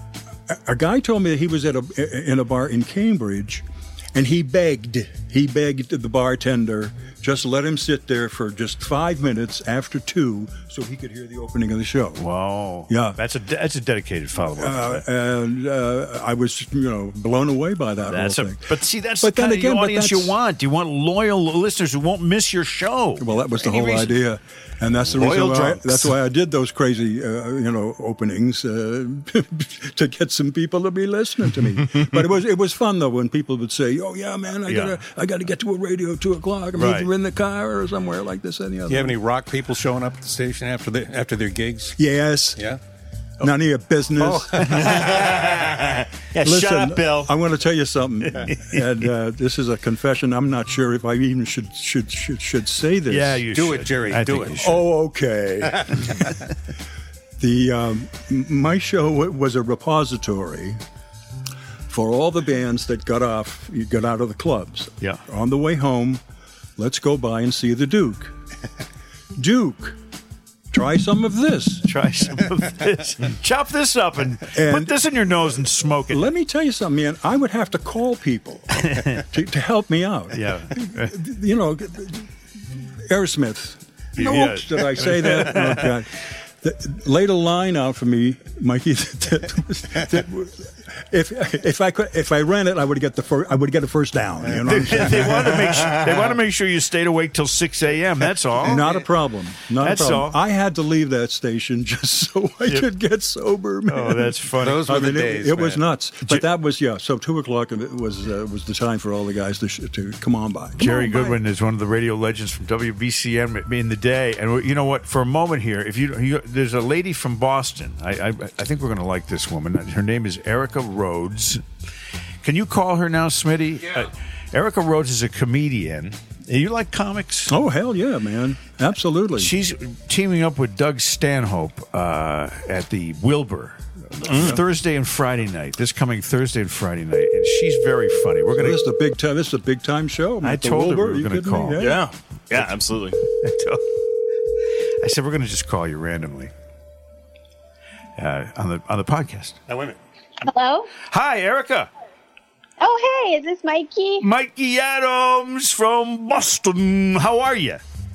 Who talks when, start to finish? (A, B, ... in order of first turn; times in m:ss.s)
0:00.5-0:12.2 A
0:12.2-0:15.0 B
0:12.9-0:13.2 A
0:14.6-0:20.4 A
0:18.1-0:24.1 B
0:23.2-0:39.2 A
0:25.2-0:26.1 B
0:34.7-0:35.0 B
0:36.8-0:37.1 B
0:38.9-0:42.0 C
0:42.0-0:42.6 A
0:43.4-0:45.0 A
0:44.2-0:45.0 C
0:44.8-0:47.3 D
0:46.4-0:53.4 A
0:48.4-0:48.8 B
0:53.1-0:54.8 B
0:53.5-0:54.7 C
0:54.6-0:56.3 A
0:57.4-1:00.8 A
1:01.9-1:06.2 A
1:06.8-1:08.3 A
1:09.4-1:10.0 A
1:10.7-1:11.9 A
1:11.8-1:16.3 B
1:14.5-1:15.0 A
1:16.1-1:22.3 A
1:18.9-1:19.2 B
1:20.3-1:21.1 B
1:23.0-1:35.6 A
1:24.2-1:25.8 B
1:34.7-1:38.9 B
1:38.6-1:51.4 A
1:39.8-1:40.4 B
1:43.9-1:44.9 B
1:44.6-1:45.8 C
1:50.8-2:01.6 B
2:02.4-2:07.6 B
2:07.5-2:09.5 A
2:09.4-2:18.8 B
2:14.2-2:14.6 D
2:14.3-2:14.6 A
2:18.6-2:22.0 A
2:20.4-2:21.8 B
2:21.8-2:23.2 D
2:22.5-2:23.9 B
2:25.0-2:26.5 B
2:28.2-2:29.6 B
2:29.7-2:30.0 C
2:30.4-2:30.9 E
2:31.1-2:31.9 B
2:32.8-2:34.2 E
2:34.2-2:37.8 B